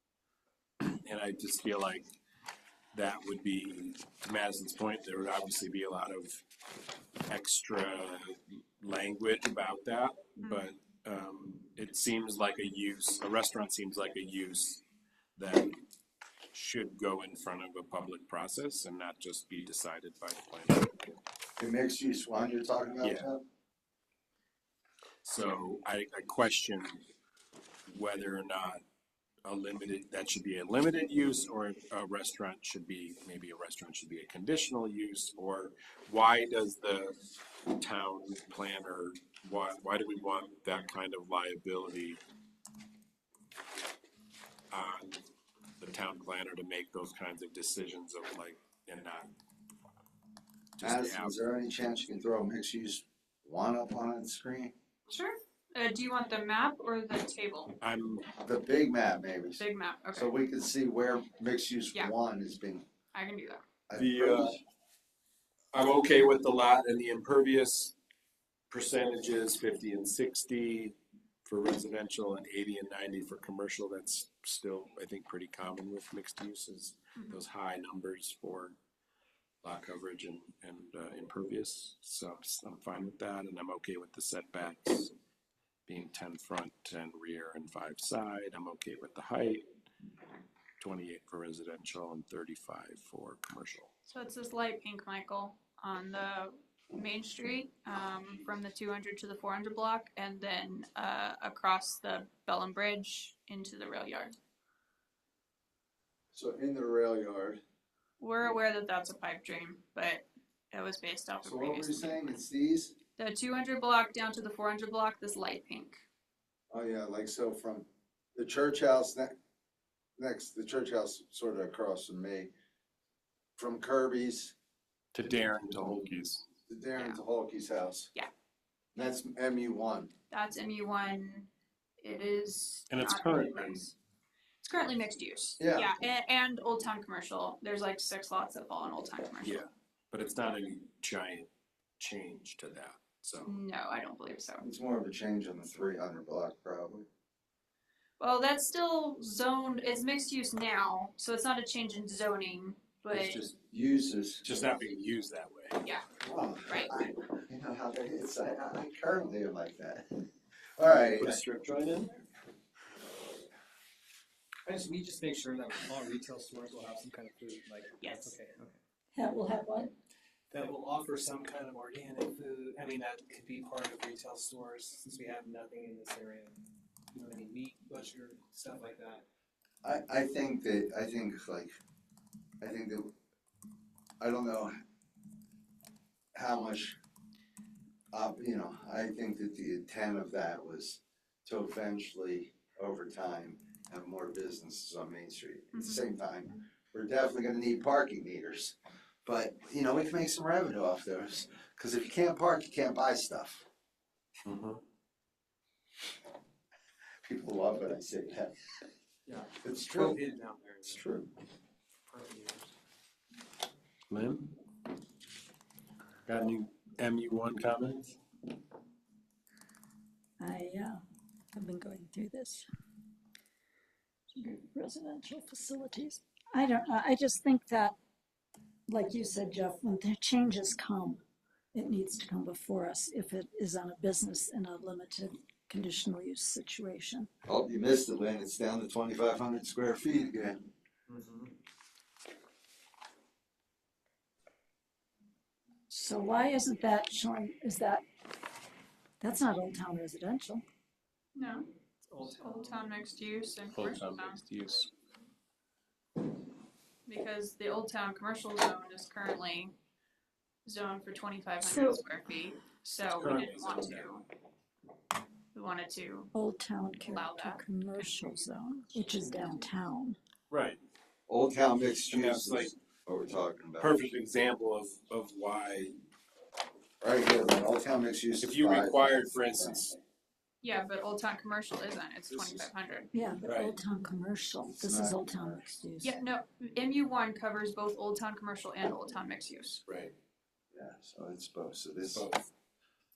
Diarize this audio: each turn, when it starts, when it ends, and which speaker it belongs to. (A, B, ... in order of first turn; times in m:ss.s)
0:00.8-0:02.1 A
0:02.9-0:06.4 A
0:07.3-0:14.8 A
0:15.4-0:15.8 A
0:16.5-0:21.0 A
0:21.6-0:23.4 B
0:23.0-0:23.3 A
0:25.2-0:27.0 A
0:27.9-0:28.8 A
0:29.4-0:42.2 A
0:44.7-0:45.2 A
0:45.8-0:49.3 A
0:50.8-0:51.4 A
0:50.8-0:54.7 B
0:55.1-0:57.8 C
0:57.8-0:58.3 A
0:58.4-1:02.9 B
0:59.6-1:00.3 C
1:03.1-1:03.6 C
1:03.9-1:04.6 B
1:03.9-1:04.6 A
1:05.7-1:08.0 A
1:08.7-1:18.8 A
1:17.2-1:17.4 C
1:19.6-1:25.1 A
1:25.9-1:29.7 A
1:30.8-1:33.9 A
1:34.1-1:44.4 C
1:46.3-1:47.6 B
1:48.2-1:52.4 C
1:51.4-1:53.0 B
1:53.2-1:56.0 C
1:56.7-1:59.3 B
2:00.2-2:02.5 B
2:03.6-2:04.6 B
2:05.1-2:06.4 A
2:06.7-2:08.1 B
2:09.0-2:10.1 B
2:10.3-2:11.5 C
2:12.0-2:14.0 C
2:12.9-2:13.8 A
2:14.6-2:19.7 C
2:15.6-2:15.9 B
2:19.4-2:23.6 A
2:23.5-2:24.7 C
2:24.6-2:27.1 B
2:28.2-2:33.5 C
2:33.1-2:33.5 A
2:33.5-2:34.4 B
2:34.4-2:35.8 A
2:36.2-2:40.3 B
2:36.7-2:36.9 C
2:40.8-2:41.4 B
2:40.8-2:42.2 A
2:44.7-2:48.8 D
2:48.0-2:48.4 C
2:49.2-2:49.9 E
2:50.5-2:56.6 D
2:57.1-2:59.2 D
2:59.8-3:01.7 B
3:02.6-3:03.1 B
3:04.2-3:04.7 B
3:06.4-3:07.0 B
3:08.1-3:23.7 B
3:15.7-3:16.0 C
3:24.4-3:24.8 A
3:27.2-3:28.6 B
3:29.3-3:31.0 D
3:29.6-3:30.2 B
3:30.8-3:31.3 B
3:32.1-3:32.7 D
3:34.1-3:34.6 A
3:36.2-3:38.2 A
3:40.4-3:41.0 E
3:41.5-3:42.7 E
3:44.4-3:48.0 E
3:48.9-3:51.2 E
3:51.7-3:57.3 E
3:57.4-4:00.6 B
4:05.9-4:08.0 E
4:09.2-4:10.6 E
4:11.4-4:11.7 C
4:12.1-4:12.8 D
4:12.2-4:14.4 C
4:13.7-4:14.9 A
4:17.1-4:19.8 C
4:20.7-4:24.3 C
4:23.0-4:24.1 A
4:25.5-4:26.3 C
4:26.3-4:30.2 E
4:27.0-4:27.6 C
4:30.5-4:30.8 A
4:31.3-4:34.0 B
4:32.0-4:32.8 A
4:33.8-4:36.0 A
4:37.0-4:39.8 B
4:38.4-4:40.0 A
4:40.6-4:43.1 C
4:42.3-4:42.7 A
4:43.1-4:46.2 E
4:43.4-4:43.8 A
4:44.7-4:45.7 B
4:46.0-4:49.8 C
4:49.9-4:50.1 A
4:50.7-4:52.3 B
4:52.1-4:52.5 A